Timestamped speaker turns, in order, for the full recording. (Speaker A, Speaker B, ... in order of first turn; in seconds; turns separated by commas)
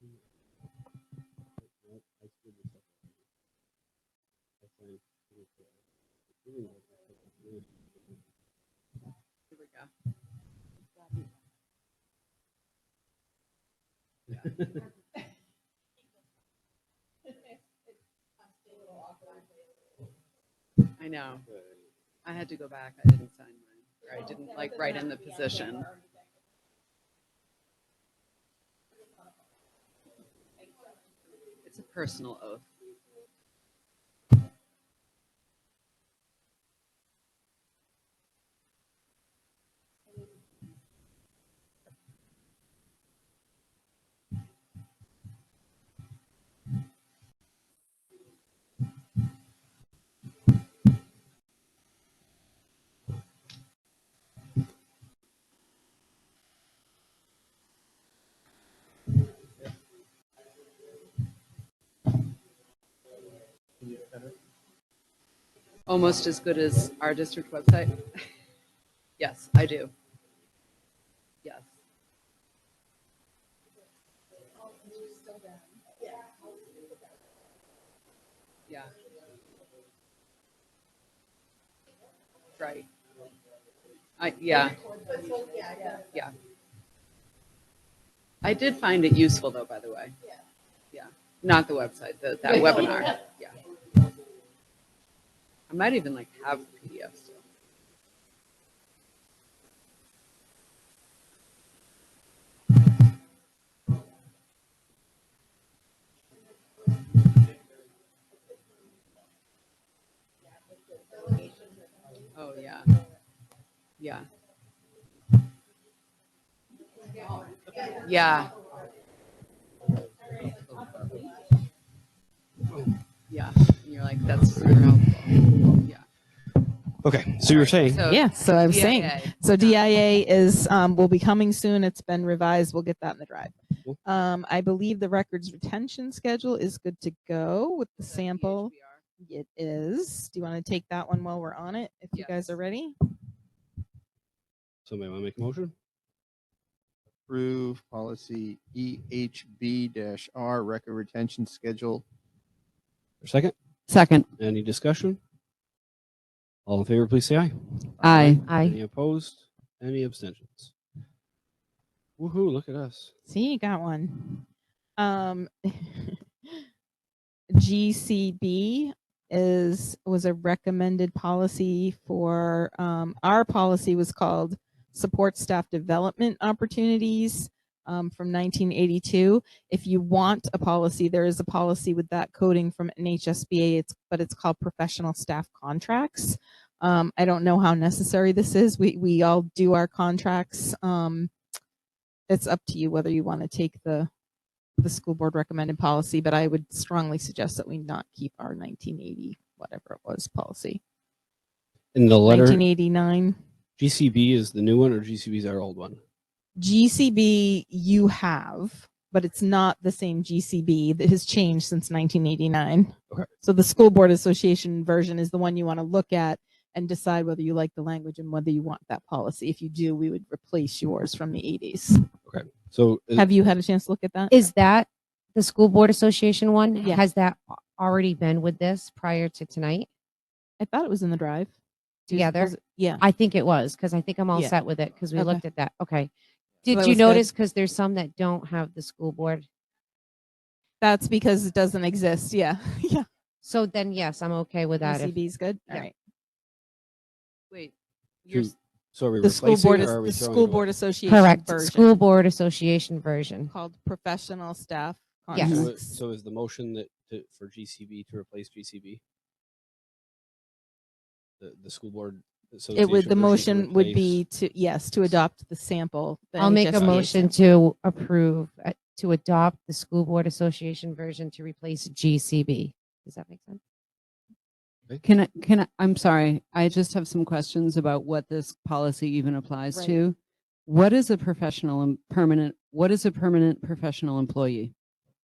Speaker A: 1.6-3.0, Speaker A: 4.6-5.7, Speaker A: 6.4-7.7, Speaker B: 9.5-9.9, Speaker B: 21.0-21.4, Speaker B: 22.2-25.9, Speaker B: 31.6-32.6, Speaker C: 63.8-64.3, Speaker B: 65.9-68.2, Speaker B: 69.2-69.9, Speaker B: 78.7-78.9, Speaker B: 82.6-82.9, Speaker B: 84.2-86.3, Speaker B: 88.4-90.1, Speaker B: 90.9-93.5, Speaker B: 95.7-97.4, Speaker B: 112.3-112.9, Speaker B: 114.0-114.3, Speaker B: 117.8-118.6, Speaker B: 120.6-121.0, Speaker B: 123.3-126.0, Speaker A: 127.0-128.0, Speaker B: 127.4-129.8, Speaker D: 128.0-142.9, Speaker B: 138.0-139.0, Speaker B: 142.1-142.5, Speaker A: 144.8-145.7, Speaker C: 147.3-152.0, Speaker A: 153.2-153.5, Speaker B: 153.9-154.2, Speaker A: 154.4-155.2, Speaker A: 156.7-160.7, Speaker C: 158.0-158.3, Speaker B: 158.0-158.3, Speaker E: 158.4-158.8, Speaker A: 162.2-163.1, Speaker D: 163.2-164.4, Speaker D: 165.0-166.2, Speaker D: 167.5-191.3, Speaker D: 192.3-194.1, Speaker D: 194.8-200.8, Speaker A: 201.9-202.6, Speaker D: 202.2-203.4, Speaker A: 203.8-206.0, Speaker D: 206.6-222.0, Speaker A: 222.3-223.3, Speaker D: 223.1-224.3, Speaker E: 224.3-229.9, Speaker D: 230.6-231.5, Speaker D: 232.1-233.0, Speaker E: 232.1-236.1, Speaker D: 235.1-235.4, Speaker E: 236.6-239.4, Speaker D: 236.7-237.2, Speaker D: 240.8-243.0, Speaker E: 243.4-245.1, Speaker D: 244.8-245.9, Speaker B: 248.2-248.5, Speaker A: 248.3-250.7, Speaker D: 249.2-251.9, Speaker E: 251.1-253.5, Speaker D: 253.5-256.0, Speaker E: 255.3-255.7, Speaker F: 255.4-255.7, Speaker A: 255.4-259.0, Speaker A: 261.4-264.2, Speaker D: 262.7-267.3, Speaker E: 266.4-273.6, Speaker A: 266.8-267.0, Speaker F: 275.0-279.9, Speaker B: 275.0-280.1, Speaker D: 279.7-280.0, Speaker B: 280.7-283.6, Speaker F: 280.7-284.7